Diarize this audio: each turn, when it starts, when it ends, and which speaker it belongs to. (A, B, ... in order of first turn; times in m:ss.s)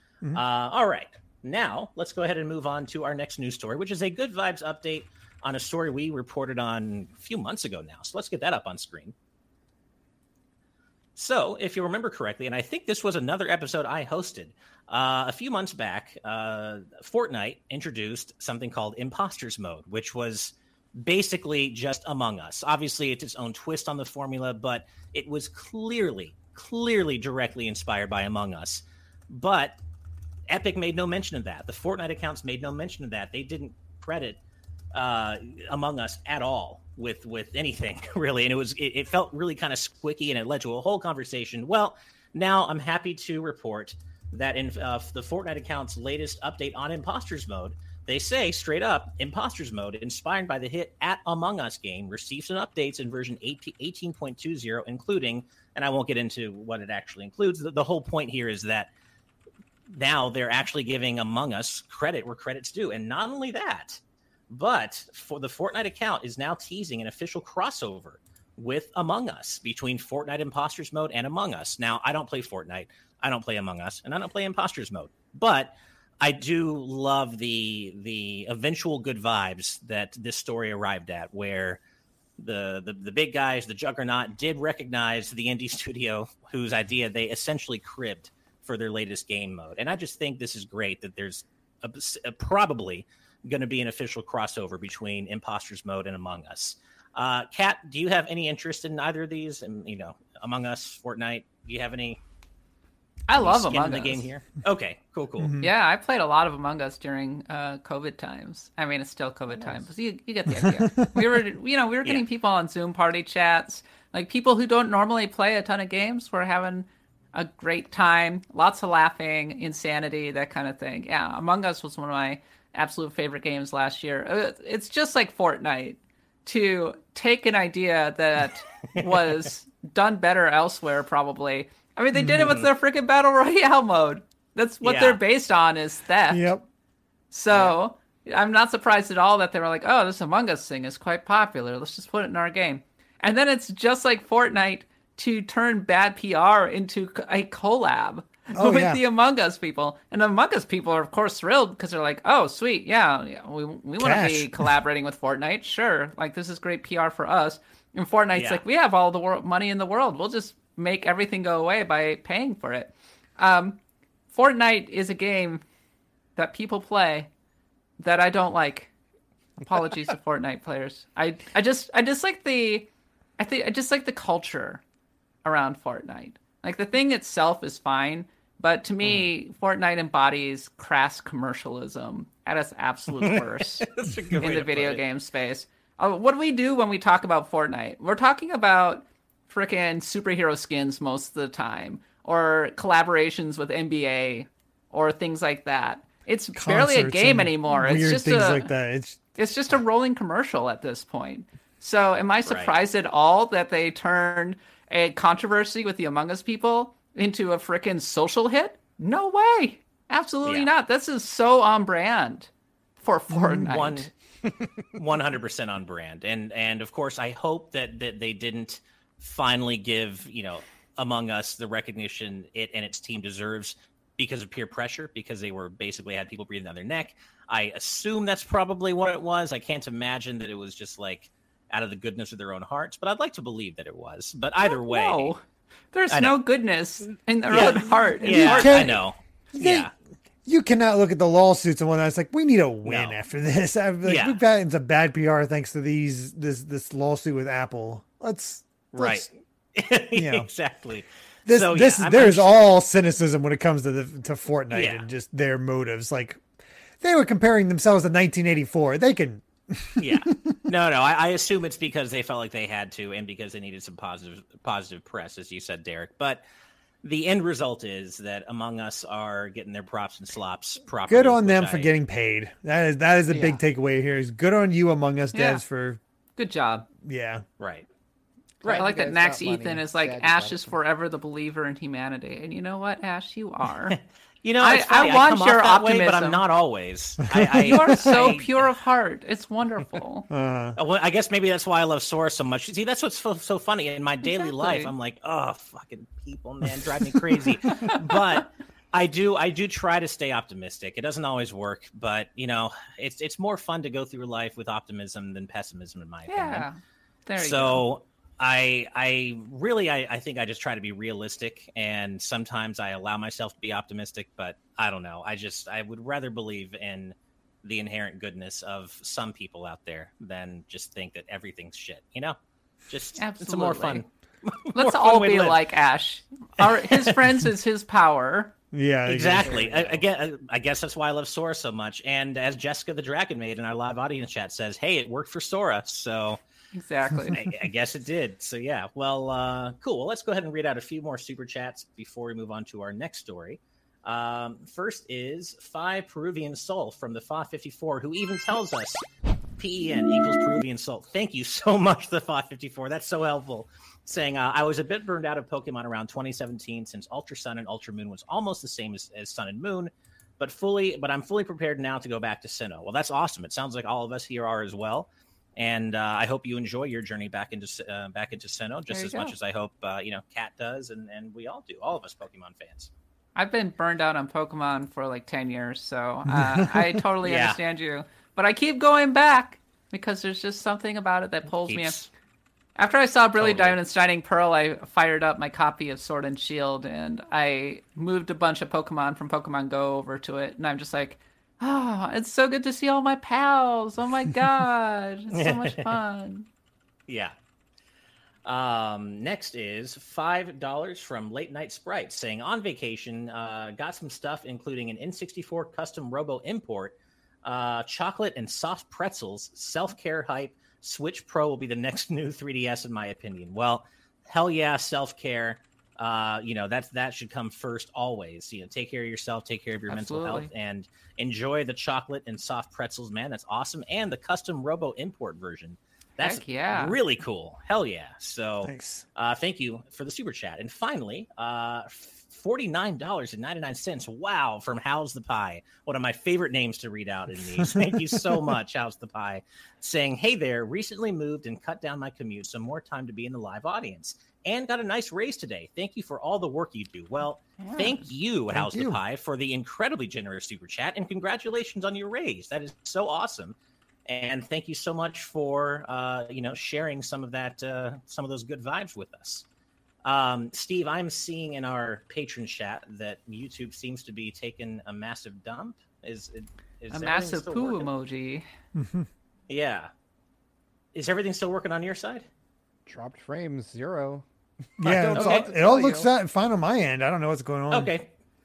0:00.3-0:09.1 A
0:11.2-0:29.8 A
0:30.5-0:34.4 A
0:34.9-0:58.9 A
0:59.9-1:21.8 A
1:22.4-1:42.2 A
1:43.3-1:44.2 B
1:43.4-1:45.6 A
1:45.4-1:45.7 C
1:45.6-2:16.5 B
1:49.5-1:49.8 D
1:50.5-1:51.2 C
2:08.9-2:09.5 A
2:12.2-2:12.5 C
2:12.4-2:12.7 A
2:14.8-2:15.2 A
2:16.3-2:16.6 C
2:17.3-2:43.8 B
2:28.5-2:29.0 C
2:34.0-2:34.7 C
2:38.3-2:38.6 A
2:44.3-2:45.6 B
2:46.4-2:47.3 B
2:48.0-2:48.9 B
2:49.6-2:54.8 B
2:55.4-3:18.7 B
3:03.2-3:05.0 A
3:16.6-3:19.4 C
3:19.4-3:34.1 B
3:22.4-3:22.7 A
3:33.4-3:34.1 A
3:34.9-3:55.3 A
3:54.6-3:58.9 B
3:56.1-3:56.4 A
3:57.5-3:59.9 A
3:58.2-3:59.0 C
3:59.5-3:59.9 C
4:00.4-4:09.3 C
4:02.8-4:03.1 A
4:04.0-4:04.4 A
4:08.9-4:12.6 A
4:10.1-4:10.5 C
4:11.4-4:16.4 C
4:14.7-4:15.0 A
4:17.0-4:20.5 C
4:20.0-4:26.4 A
4:27.0-4:31.9 A
4:31.1-4:36.0 C
4:33.3-4:33.6 D
4:35.3-4:35.6 B
4:36.4-4:36.9 B
4:37.0-4:37.4 C
4:37.6-4:37.8 A
4:38.6-4:38.9 A
4:38.6-4:40.8 D
4:38.7-4:44.0 B
4:43.9-4:48.7 A
4:44.6-4:46.4 B
4:47.2-4:47.9 C
4:47.6-4:50.3 B
4:50.3-4:50.8 C
4:50.7-5:06.6 A
4:54.2-4:54.9 B
4:57.7-4:58.2 B
5:06.3-5:07.8 B
5:07.4-5:22.4 A
5:22.9-5:25.6 A
5:23.2-5:24.0 B
5:24.7-5:28.5 B
5:26.6-5:27.1 A
5:28.7-5:29.6 C
5:29.0-5:36.4 A
5:29.4-5:30.0 D
5:36.7-5:37.4 B
5:37.3-5:49.0 A
5:49.6-6:12.9 A
6:08.9-6:09.3 B
6:13.4-6:22.0 B
6:16.3-6:17.0 C
6:17.2-6:17.6 A
6:21.5-6:22.1 A
6:22.8-6:36.5 B
6:23.4-6:23.8 A
6:35.3-6:36.0 A
6:37.1-6:37.3 A
6:38.4-7:33.5 A
6:59.9-7:00.5 B
7:06.2-7:07.0 B
7:08.6-7:09.0 C
7:17.6-7:18.2 C
7:27.6-7:28.0 B
7:28.5-7:29.0 C
7:34.0-7:39.4 A
7:40.0-7:47.9 A
7:46.9-7:48.4 B
7:48.7-7:49.1 C
7:49.5-7:49.9 A
7:50.9-7:52.2 A
7:52.8-7:54.2 D
7:54.8-7:56.1 D
7:54.8-7:57.9 C
7:55.1-7:55.5 A
7:57.7-7:58.1 A